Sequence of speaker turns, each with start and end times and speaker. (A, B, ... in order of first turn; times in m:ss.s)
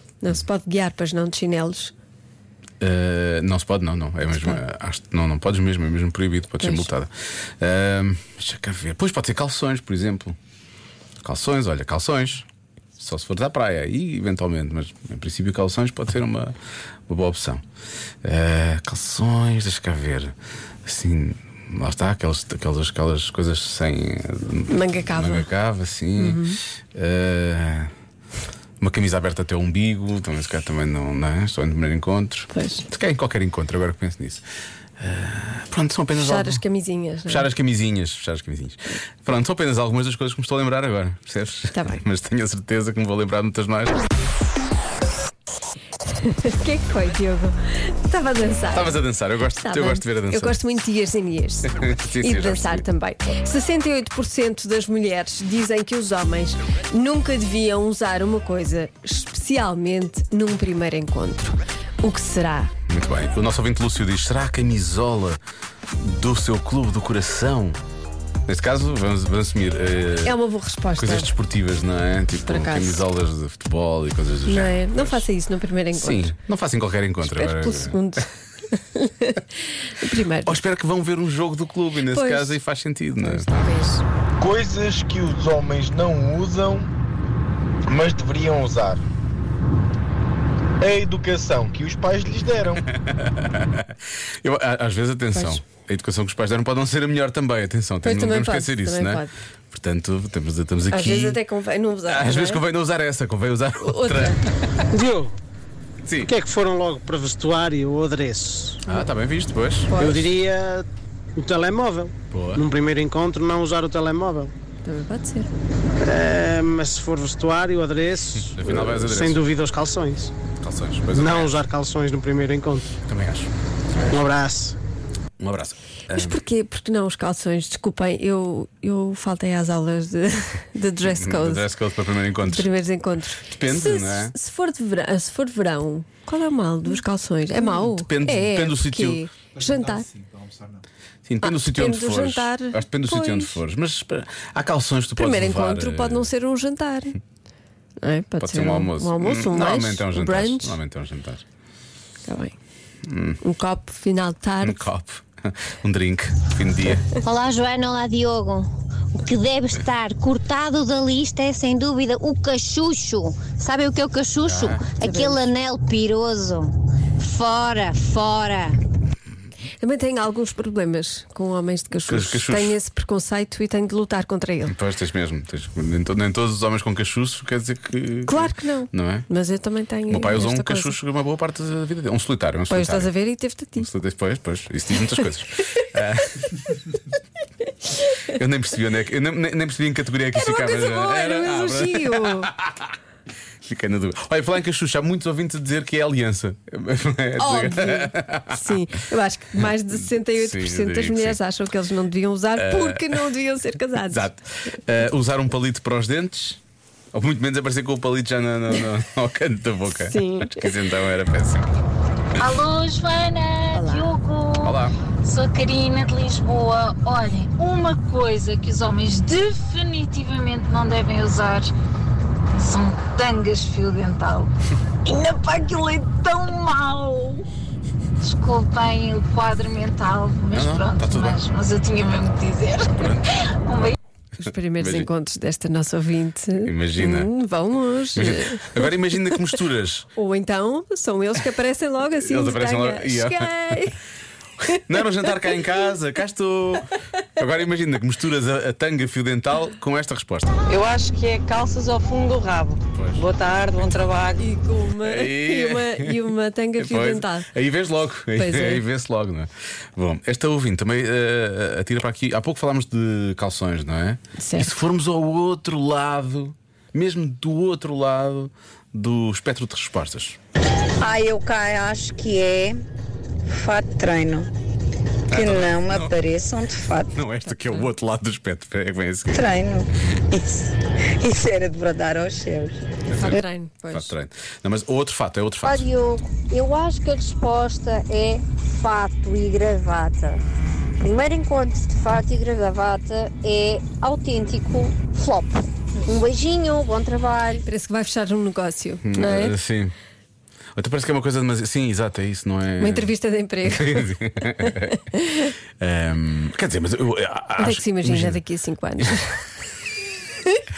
0:00.2-0:01.9 A
0:02.8-0:10.4 B
0:06.6-0:06.9 A
0:11.2-0:12.4 B
0:13.0-0:16.5 B
0:17.1-0:17.6 B
0:18.2-0:26.4 B
0:24.7-0:25.5 A
0:26.2-0:26.6 A
0:26.9-0:27.9 B
0:28.8-0:34.4 B
0:32.5-0:32.8 A
0:35.0-0:36.6 B
0:36.2-0:37.5 A
0:37.3-0:44.0 B
0:41.7-0:42.0 A
0:46.1-0:49.0 A
0:48.7-0:50.6 B
0:49.6-1:02.7 A
0:51.7-0:52.8 B
1:02.9-1:05.4 B
1:06.0-1:07.8 B
1:08.4-1:10.4 B
1:10.2-1:11.3 A
1:11.0-1:15.2 B
1:12.4-1:13.0 A
1:14.5-1:16.3 A
1:15.9-1:18.1 B
1:17.2-1:19.4 A
1:20.0-1:20.6 A
1:20.4-1:23.8 B
1:22.1-1:22.6 A
1:23.2-1:24.0 A
1:24.4-1:26.9 C
1:27.9-1:29.0 C
1:30.8-1:32.8 C
1:32.9-1:41.4 B
1:35.3-1:35.6 A
1:38.0-1:39.3 A
1:40.9-1:42.6 A
1:42.0-1:44.8 B
1:43.8-1:44.4 A
1:44.9-1:45.3 D
1:46.0-1:46.3 B
1:46.2-1:48.8 D
1:48.9-1:49.9 B
1:49.9-1:50.2 A
1:49.9-1:54.5 D
1:52.3-1:52.6 B
1:54.8-1:55.5 A
1:56.0-2:00.3 D
1:58.4-1:59.4 B
2:00.6-2:01.6 B
2:01.1-2:02.9 D
2:03.0-2:03.5 B
2:04.1-2:04.8 D
2:05.4-2:06.4 B
2:06.1-2:11.6 A
2:11.0-2:12.7 B
2:12.4-2:20.1 A
2:13.5-2:14.3 B
2:17.6-2:19.2 B
2:21.2-2:26.3 B
2:21.4-2:23.6 A
2:25.2-2:27.2 A
2:28.0-2:30.8 A
2:28.4-2:31.4 B
2:32.2-2:32.6 A
2:33.0-2:33.4 B
2:33.4-2:34.8 A
2:34.6-2:37.1 B
2:37.2-2:48.8 E
2:44.4-2:44.8 B
2:45.0-2:45.5 A
2:49.8-2:54.7 A
2:52.0-2:52.8 B
2:54.6-2:59.3 B
2:58.3-3:01.0 A
3:00.1-3:03.1 B
3:02.7-3:03.9 A
3:03.8-3:06.5 B
3:08.3-3:12.9 B
3:10.3-3:12.5 A
3:13.6-3:18.8 B
3:17.4-3:24.2 A
3:19.9-3:21.4 B
3:22.6-3:23.2 B
3:24.1-3:26.6 B
3:27.1-3:31.7 B
3:30.1-3:30.7 A
3:32.4-3:41.7 F
3:33.7-3:34.1 A
3:34.6-3:35.0 B
3:42.6-3:44.5 F
3:45.0-3:47.4 F
3:48.2-3:54.0 F
3:50.5-3:51.4 B
3:52.9-3:53.3 B
3:54.4-3:58.9 A
3:54.8-3:55.1 B
3:56.6-3:57.3 B
3:58.1-4:00.1 B
4:00.2-4:04.0 A
4:02.2-4:03.9 B
4:04.6-4:10.5 B
4:10.7-4:14.4 G
4:12.9-4:13.2 B
4:14.4-4:17.5 A
4:15.0-4:16.2 B
4:16.8-4:30.4 B
4:18.3-4:18.8 A
4:24.4-4:24.8 A
4:31.0-4:32.8 H
4:33.5-4:34.5 H
4:35.3-4:36.2 B
4:35.3-4:37.1 H
4:37.1-4:39.5 B
4:37.6-4:37.9 A
4:39.3-4:42.8 H
4:43.1-4:45.9 B
4:43.2-4:44.1 A
4:45.6-4:50.4 I
4:51.0-4:57.6 I
4:57.6-4:59.6 A
4:59.0-4:59.9 B
5:00.7-5:03.1 B
5:02.8-5:05.5 A
5:03.6-5:05.0 B
5:05.8-5:08.4 B
5:07.6-5:09.4 A